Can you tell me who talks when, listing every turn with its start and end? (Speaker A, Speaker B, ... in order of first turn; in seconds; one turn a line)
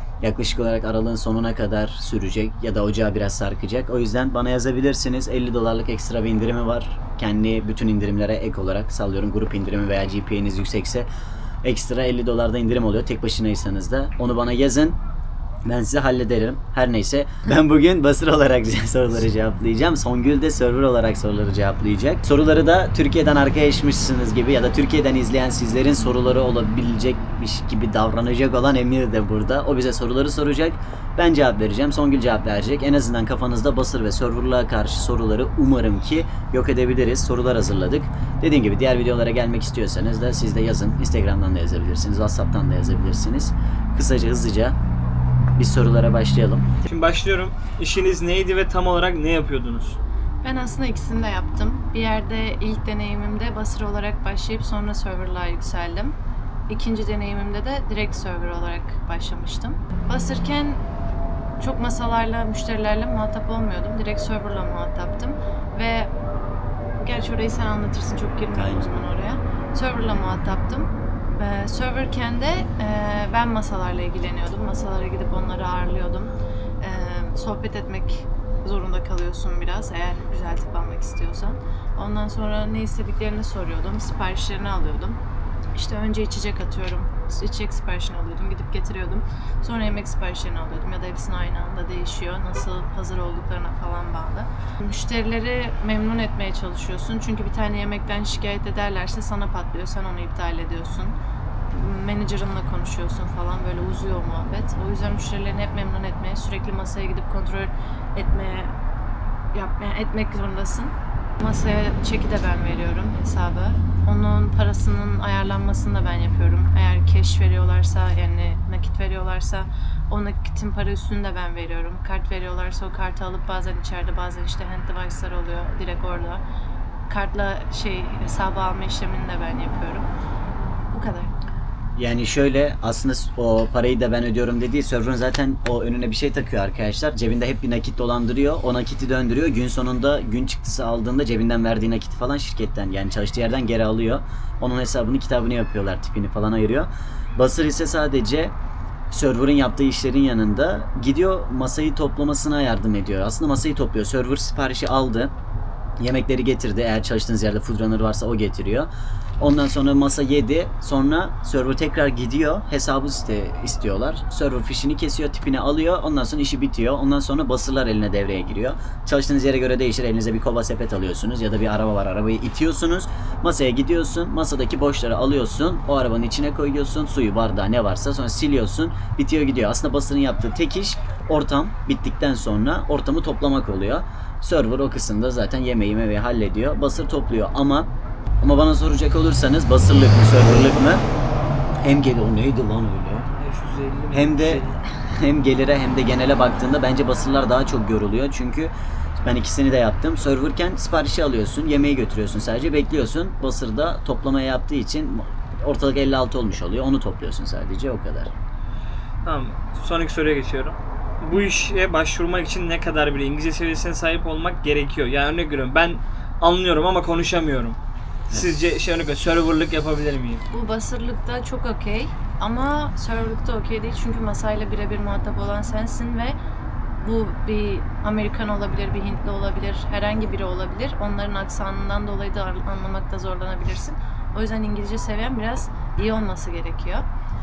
Speaker A: 0.2-11.1
Speaker A: 11.6-15.0
Speaker A: 15.6-44.8
Speaker A: 45.6-46.8
Speaker B: 46.9-50.0
Speaker C: 50.4-56.2
Speaker C: 56.7-60.8
Speaker C: 61.6-66.1
Speaker C: 67.0-85.2
Speaker A: 68.5-68.9
Speaker C: 85.8-101.2
Speaker C: 101.7-108.7
Speaker C: 109.5-126.4
Speaker C: 127.1-130.1
Speaker C: 130.9-131.3
Speaker A: 132.0-148.5
Speaker A: 149.1-155.3
Speaker A: 156.0-158.9
Speaker A: 159.4-187.9
Speaker A: 188.4-191.0
Speaker A: 191.8-193.3
Speaker B: 193.3-194.8
Speaker A: 194.1-208.3
Speaker B: 209.2-217.8
Speaker B: 218.3-220.4
Speaker C: 220.5-226.4
Speaker C: 227.0-237.1